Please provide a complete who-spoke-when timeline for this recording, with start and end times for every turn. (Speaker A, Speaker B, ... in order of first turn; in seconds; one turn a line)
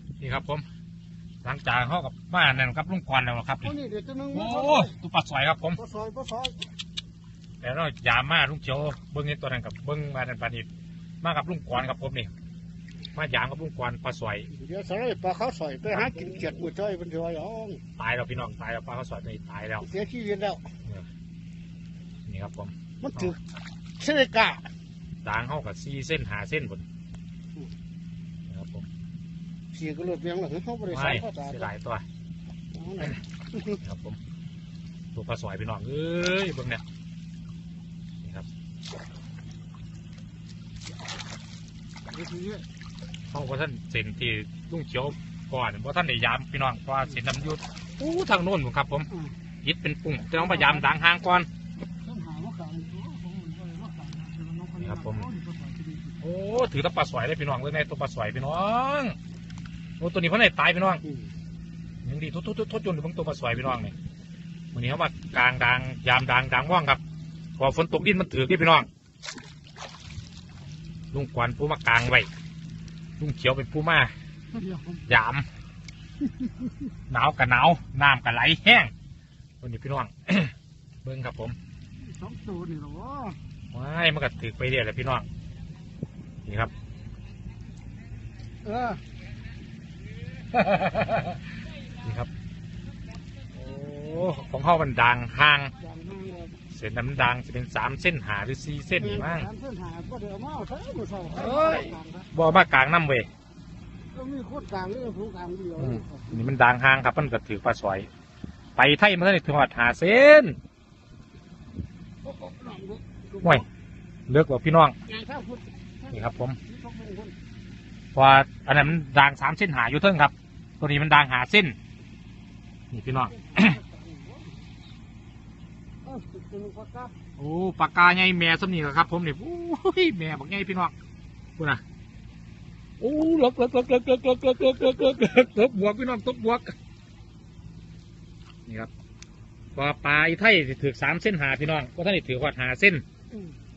Speaker A: 0.2-0.6
Speaker A: 1.4-3.8
Speaker B: 3.6-4.9
Speaker A: 4.3-5.8
Speaker B: 5.8-6.7
Speaker A: 7.6-10.7
Speaker A: 11.2-12.3
Speaker A: 13.1-14.5
Speaker B: 14.5-17.8
Speaker A: 15.9-16.6
Speaker A: 18.0-19.9
Speaker B: 19.9-20.7
Speaker A: 22.2-23.4
Speaker B: 23.0-23.4
Speaker B: 24.0-24.7
Speaker A: 25.2-26.8
Speaker A: 28.5-28.9
Speaker B: 29.7-31.6
Speaker A: 30.9-32.0
Speaker B: 32.7-33.8
Speaker A: 33.8-34.2
Speaker A: 35.1-36.8
Speaker A: 38.2-38.5
Speaker B: 42.1-42.6
Speaker A: 43.3-49.1
Speaker A: 49.6-51.5
Speaker B: 52.0-56.2
Speaker A: 54.8-55.3
Speaker A: 56.2-59.2
Speaker A: 60.0-61.0
Speaker A: 62.0-63.9
Speaker A: 64.7-67.0
Speaker A: 67.6-68.9
Speaker A: 71.1-72.3
Speaker A: 73.2-74.1
Speaker B: 74.5-75.0
Speaker A: 75.0-75.5
Speaker A: 77.1-78.9
Speaker A: 79.6-81.5
Speaker B: 82.0-83.4
Speaker A: 83.7-85.3
Speaker A: 86.4-86.7
Speaker B: 88.6-89.0
Speaker A: 90.5-92.3
Speaker A: 93.5-95.7
Speaker B: 95.8-96.5
Speaker A: 96.7-99.5
Speaker B: 99.0-102.3
Speaker A: 101.3-103.3
Speaker B: 104.1-106.3
Speaker A: 105.8-108.1
Speaker A: 108.8-110.6
Speaker B: 112.2-113.6
Speaker A: 114.3-115.0
Speaker B: 115.1-117.4
Speaker A: 116.1-116.6
Speaker A: 118.1-121.8
Speaker A: 122.9-123.8
Speaker B: 123.3-124.6
Speaker B: 126.0-127.1
Speaker A: 127.4-130.9
Speaker A: 131.6-131.8
Speaker A: 133.0-136.7
Speaker A: 138.7-138.9
Speaker A: 139.7-143.0